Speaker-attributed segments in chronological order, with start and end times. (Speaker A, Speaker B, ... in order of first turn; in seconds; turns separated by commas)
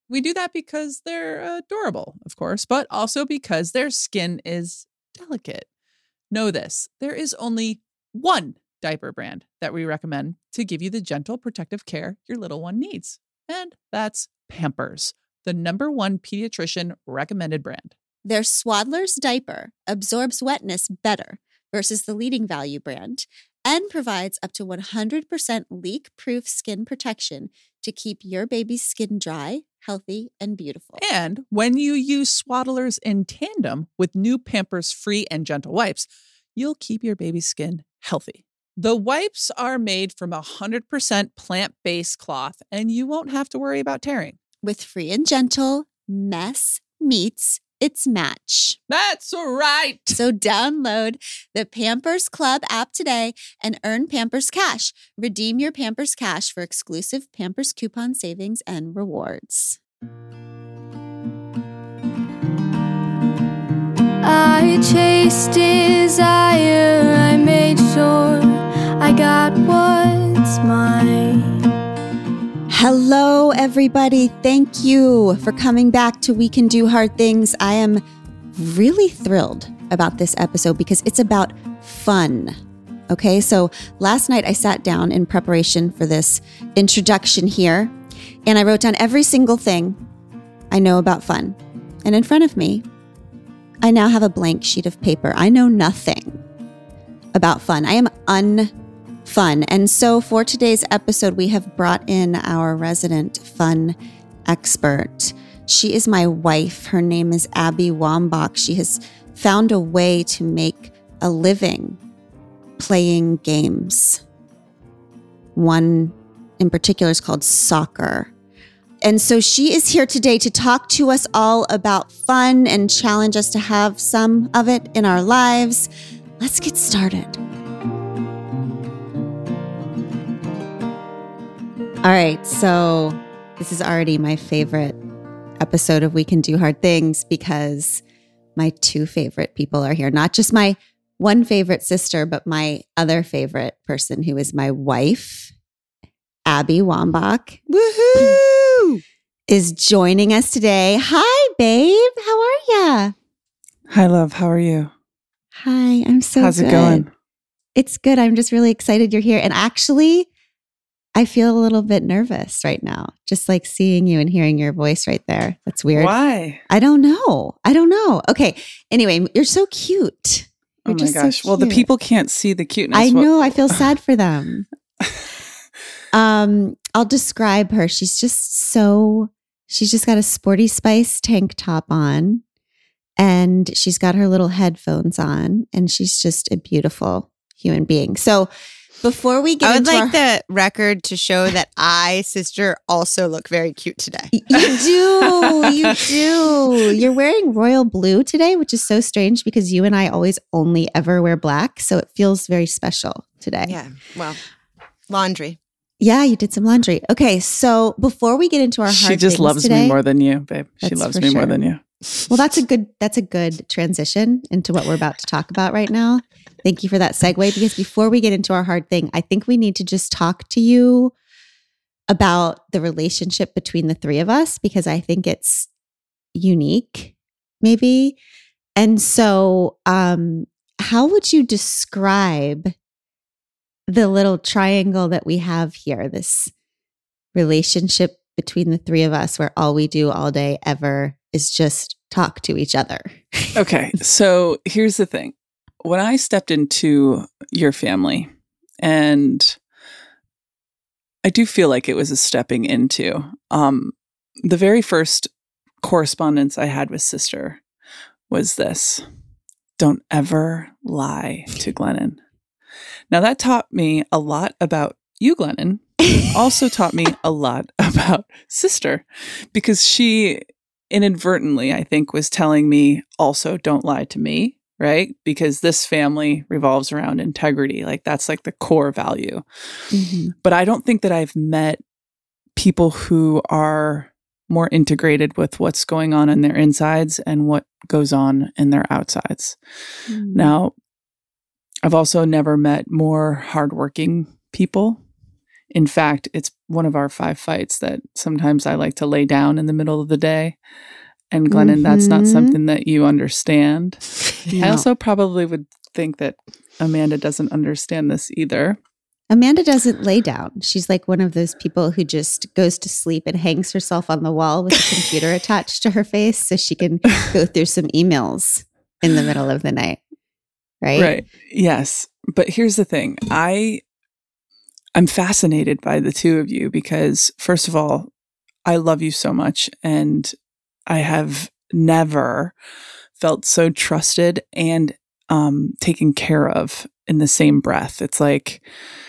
Speaker A: 0.1-5.7, Speaker A: 6.3-17.9, Speaker B: 18.2-31.0, Speaker A: 31.0-44.4, Speaker B: 44.6-48.8, Speaker A: 48.9-50.2, Speaker B: 50.1-59.8, Speaker C: 64.2-71.6, Speaker B: 72.7-78.0, Speaker B: 78.6-82.6, Speaker B: 83.1-88.0, Speaker B: 88.5-90.0, Speaker B: 90.7-92.8, Speaker B: 93.8-96.4, Speaker B: 97.3-98.7, Speaker B: 99.2-112.0, Speaker B: 112.8-114.2, Speaker B: 115.5-118.3, Speaker B: 119.0-125.9, Speaker B: 126.4-127.4, Speaker B: 132.0-135.0, Speaker B: 135.6-138.0, Speaker B: 138.6-145.5, Speaker B: 146.5-147.6, Speaker D: 147.7-149.0, Speaker B: 149.5-153.1, Speaker E: 153.9-154.9, Speaker B: 155.5-157.1, Speaker E: 156.4-157.1, Speaker B: 157.8-160.3, Speaker B: 161.2-166.1, Speaker E: 165.9-166.6, Speaker B: 166.7-171.9, Speaker E: 170.9-173.8, Speaker B: 172.9-174.7, Speaker B: 176.1-182.4, Speaker B: 183.2-188.5, Speaker B: 189.0-190.2, Speaker D: 189.6-194.3, Speaker B: 194.3-203.8, Speaker E: 195.6-196.0, Speaker D: 203.7-204.4, Speaker D: 205.1-205.6, Speaker B: 206.0-210.0, Speaker E: 208.9-211.8, Speaker B: 210.8-211.6, Speaker B: 212.3-221.1, Speaker B: 222.1-225.7, Speaker B: 226.3-228.2, Speaker B: 228.8-232.7, Speaker B: 233.9-236.5, Speaker B: 237.3-243.6, Speaker E: 243.6-249.6, Speaker E: 251.2-255.3, Speaker E: 255.8-257.6, Speaker E: 258.3-259.0, Speaker E: 259.8-262.2, Speaker E: 263.1-279.4, Speaker B: 279.9-280.4, Speaker E: 280.4-281.8, Speaker E: 282.6-289.6, Speaker B: 290.1-290.5, Speaker E: 290.3-290.7, Speaker E: 291.8-295.0, Speaker E: 295.7-300.6, Speaker E: 301.3-308.8, Speaker B: 301.5-302.6, Speaker B: 304.5-304.9, Speaker B: 309.3-320.0, Speaker B: 320.8-321.1, Speaker E: 321.0-323.8, Speaker E: 324.9-328.1, Speaker E: 328.7-330.4, Speaker E: 330.9-332.6, Speaker E: 333.2-338.6